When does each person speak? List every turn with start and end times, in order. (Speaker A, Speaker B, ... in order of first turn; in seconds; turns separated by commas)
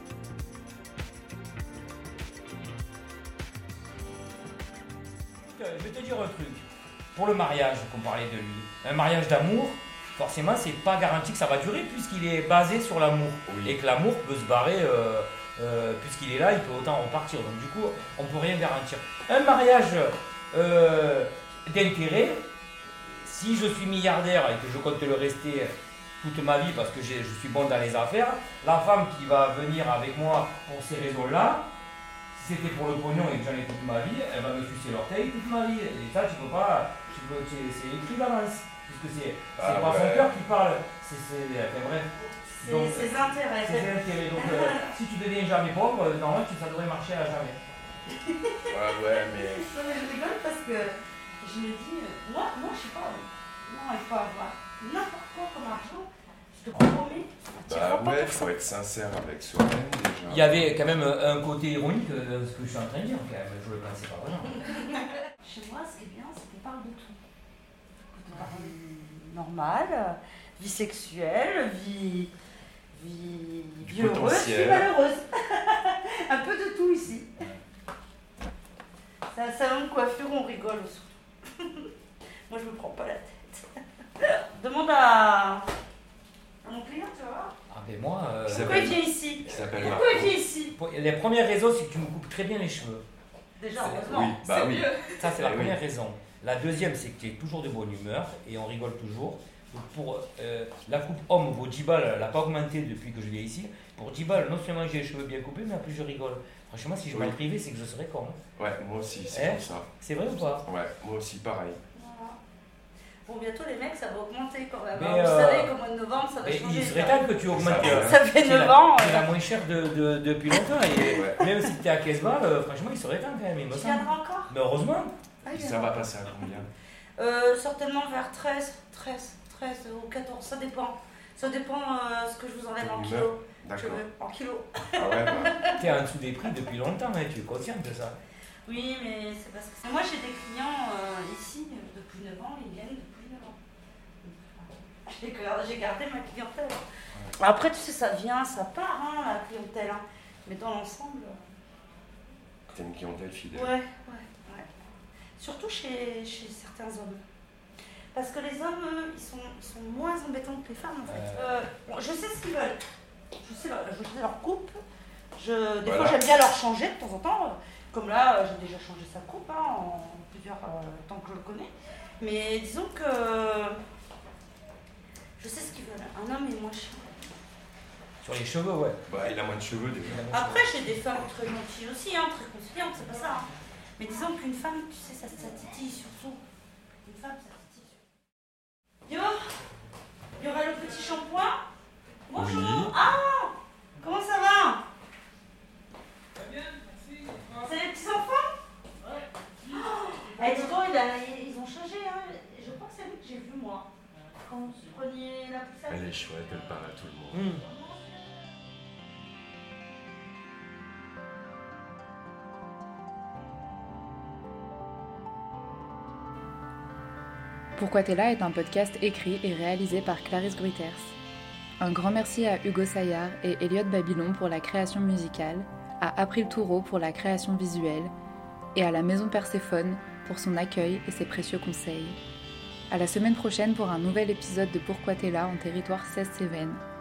Speaker A: 5.4-22.4, Speaker B: 13.5-13.8, Speaker A: 23.1-31.7, Speaker A: 32.3-47.6, Speaker B: 39.6-40.4, Speaker C: 42.5-44.9, Speaker C: 48.1-58.5, Speaker B: 48.7-49.7, Speaker B: 57.6-60.7, Speaker A: 60.2-64.6, Speaker C: 65.4-67.2, Speaker C: 68.1-72.3, Speaker C: 72.9-77.3, Speaker B: 73.8-74.9, Speaker C: 79.3-81.9, Speaker C: 82.5-83.6, Speaker C: 84.2-85.7, Speaker C: 86.6-87.5, Speaker A: 87.7-88.9, Speaker B: 88.4-90.3, Speaker C: 88.5-90.7, Speaker A: 90.7-93.0, Speaker C: 93.6-94.3, Speaker B: 93.8-95.8, Speaker A: 95.0-108.4, Speaker B: 107.1-107.4, Speaker B: 108.6-109.9, Speaker A: 109.3-110.7, Speaker B: 110.7-111.8, Speaker C: 111.9-112.4, Speaker C: 113.2-119.3, Speaker A: 114.9-115.7, Speaker A: 116.4-125.1, Speaker B: 117.5-118.2, Speaker B: 121.1-121.4, Speaker C: 123.7-124.5, Speaker C: 125.4-126.1, Speaker B: 125.5-126.7, Speaker C: 127.2-135.8, Speaker B: 132.8-134.0, Speaker B: 134.9-135.6, Speaker A: 135.8-138.2, Speaker C: 138.7-143.6, Speaker C: 144.2-146.8, Speaker C: 147.4-151.4, Speaker B: 152.7-153.7, Speaker C: 153.5-154.7, Speaker C: 155.4-157.2, Speaker C: 158.1-162.8, Speaker A: 161.1-161.6, Speaker C: 163.4-164.8, Speaker C: 165.3-173.8, Speaker B: 165.8-166.2, Speaker C: 175.4-177.2, Speaker A: 178.2-179.0, Speaker B: 179.1-180.2, Speaker A: 180.0-180.7, Speaker C: 180.3-186.4, Speaker C: 187.0-187.9, Speaker C: 189.1-189.3, Speaker C: 190.4-191.6, Speaker C: 192.3-194.8, Speaker B: 192.3-192.9, Speaker C: 197.6-198.5, Speaker C: 199.6-203.9, Speaker C: 204.4-206.2, Speaker B: 205.9-207.5, Speaker A: 207.3-207.6, Speaker C: 207.5-208.2, Speaker D: 217.8-221.2, Speaker D: 221.8-228.1, Speaker D: 228.7-232.2, Speaker D: 232.9-236.8